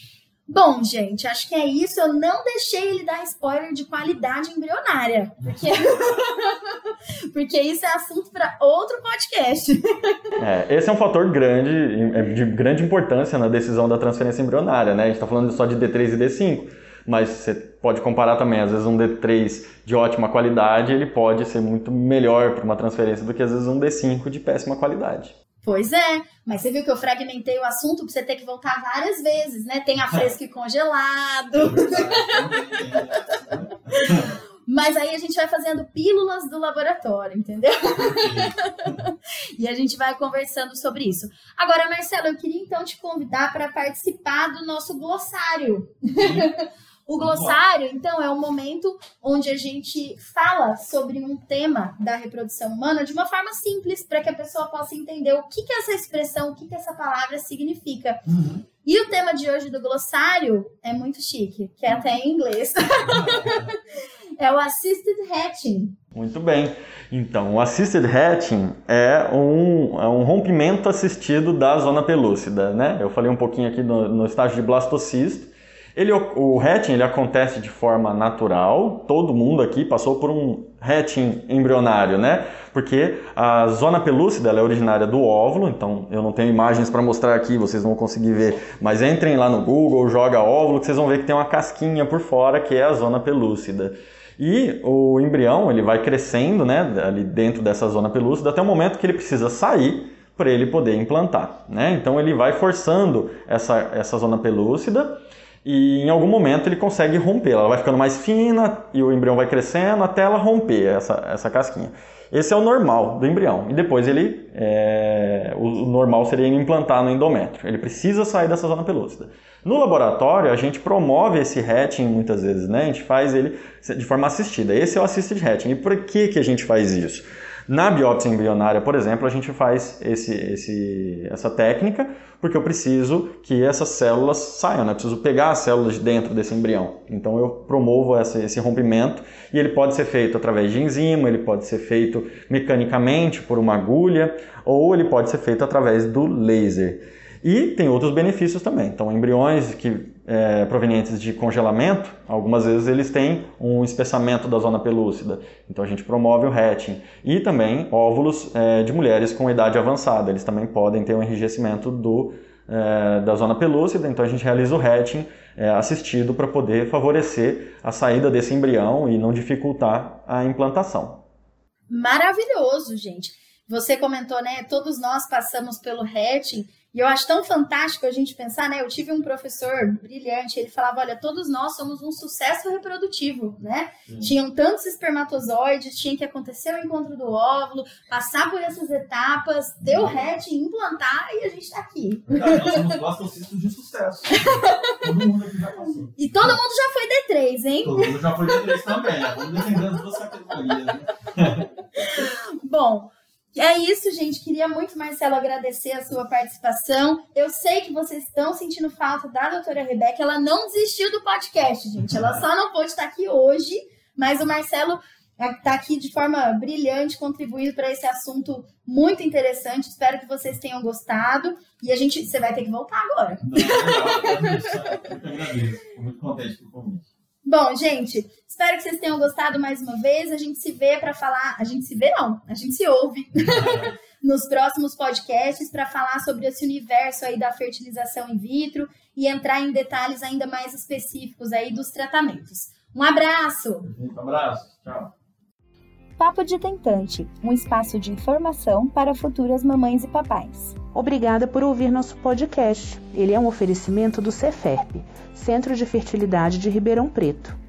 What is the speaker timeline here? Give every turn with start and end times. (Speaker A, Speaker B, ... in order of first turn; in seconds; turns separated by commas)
Speaker A: 0.5-10.2, Speaker B: 5.4-6.2, Speaker C: 10.4-25.4, Speaker A: 25.6-32.5, Speaker B: 31.6-34.4, Speaker A: 34.1-58.2, Speaker B: 38.0-39.0, Speaker B: 46.1-46.5, Speaker B: 47.2-47.6, Speaker B: 58.3-58.6, Speaker A: 58.8-63.8, Speaker B: 63.1-63.7, Speaker A: 64.4-66.0, Speaker C: 66.2-171.2, Speaker A: 171.9-192.8, Speaker B: 184.1-184.3, Speaker B: 192.3-196.6, Speaker A: 194.5-194.9, Speaker A: 196.2-198.8, Speaker B: 197.8-201.7, Speaker A: 202.0-224.1, Speaker B: 223.4-227.1, Speaker A: 227.4-243.9, Speaker B: 233.5-233.9, Speaker B: 243.9-245.1, Speaker A: 246.2-250.8, Speaker D: 250.9-257.6